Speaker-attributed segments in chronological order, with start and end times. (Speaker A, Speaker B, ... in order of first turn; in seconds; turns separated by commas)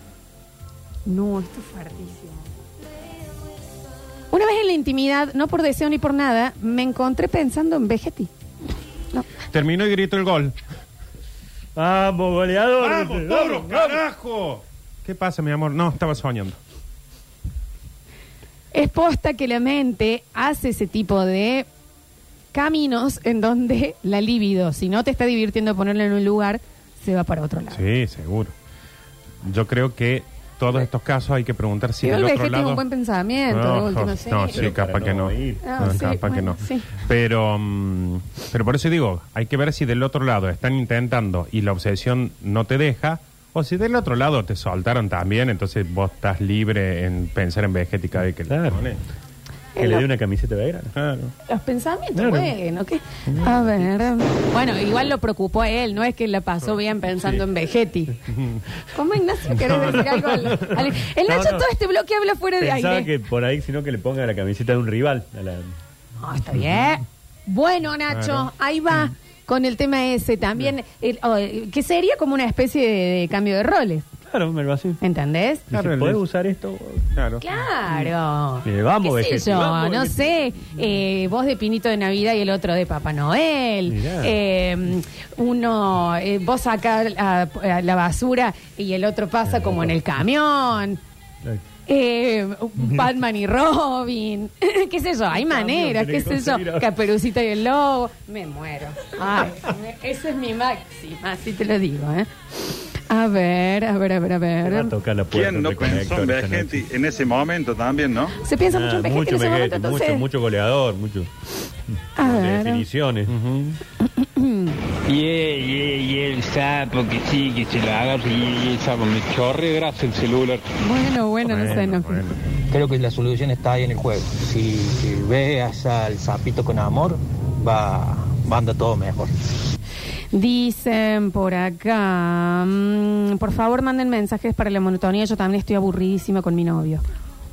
Speaker A: 1.1-2.4, Speaker A: 4.3-8.3, Speaker B: 9.5-10.6, Speaker C: 11.8-14.0, Speaker B: 12.8-16.6, Speaker A: 18.7-21.6, Speaker A: 22.5-27.8, Speaker B: 27.7-28.5, Speaker B: 29.4-32.8, Speaker A: 32.0-34.6, Speaker B: 33.5-49.0, Speaker C: 34.5-36.1, Speaker A: 35.6-36.9, Speaker C: 48.5-48.8, Speaker A: 49.8-50.0, Speaker C: 49.8-50.9, Speaker B: 50.9-51.3, Speaker A: 51.5-58.2, Speaker C: 52.2-52.5, Speaker B: 58.3-58.6, Speaker A: 58.9-63.1, Speaker C: 59.6-61.7, Speaker C: 62.6-65.7, Speaker A: 66.2-74.0, Speaker B: 68.1-68.5, Speaker C: 74.3-75.0, Speaker A: 75.0-75.6, Speaker C: 75.7-77.1, Speaker B: 75.7-76.2, Speaker B: 77.1-77.4, Speaker A: 77.4-91.0, Speaker C: 78.6-80.8, Speaker C: 83.9-84.4, Speaker C: 89.5-89.9, Speaker A: 91.9-102.3, Speaker C: 95.3-96.9, Speaker A: 103.1-104.9, Speaker C: 104.6-106.9, Speaker D: 105.3-108.3, Speaker A: 108.4-110.2, Speaker C: 108.7-111.3, Speaker A: 112.2-112.8, Speaker C: 112.2-113.3, Speaker B: 113.3-113.8, Speaker A: 114.2-114.8, Speaker E: 115.1-120.6, Speaker A: 120.8-122.2, Speaker B: 121.4-122.4, Speaker F: 122.7-129.3, Speaker A: 130.3-137.0